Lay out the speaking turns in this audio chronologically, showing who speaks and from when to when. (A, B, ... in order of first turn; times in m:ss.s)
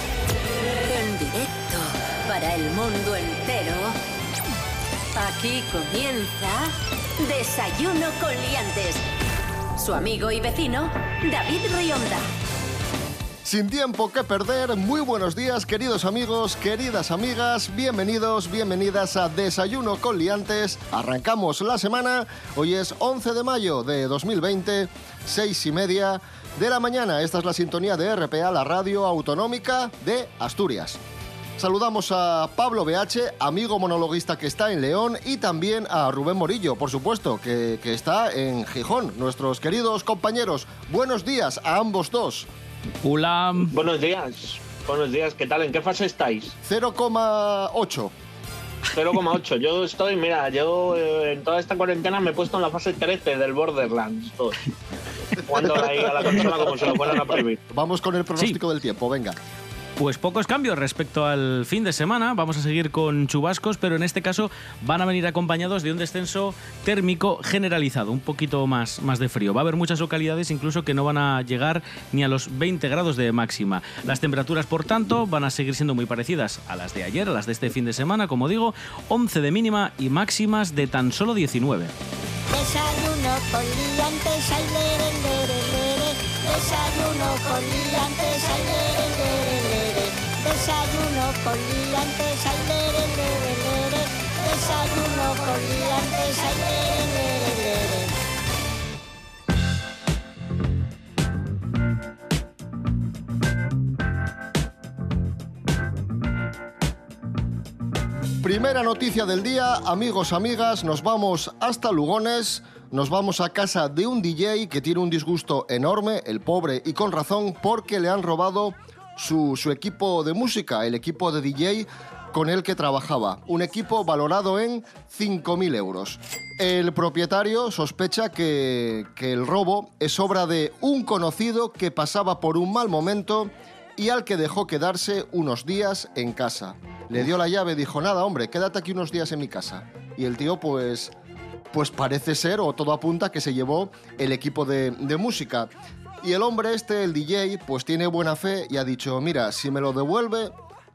0:00.7-0:04.0 A
0:05.1-0:09.0 A
0:09.8-0:12.2 A
0:13.4-0:31.0 B
0:31.6-0:42.5 B
0:43.0-0:43.7 C
0:43.7-0:46.6 D
0:46.6-0:48.1 B
0:48.9-0:54.6 D
0:55.3-0:57.6 D
0:55.9-0:56.9 B
0:57.7-0:59.4 B
1:00.0-1:21.9 C
1:22.5-1:38.1 E
1:48.4-2:21.1 B
2:21.7-2:25.7 B
2:26.2-2:30.5 B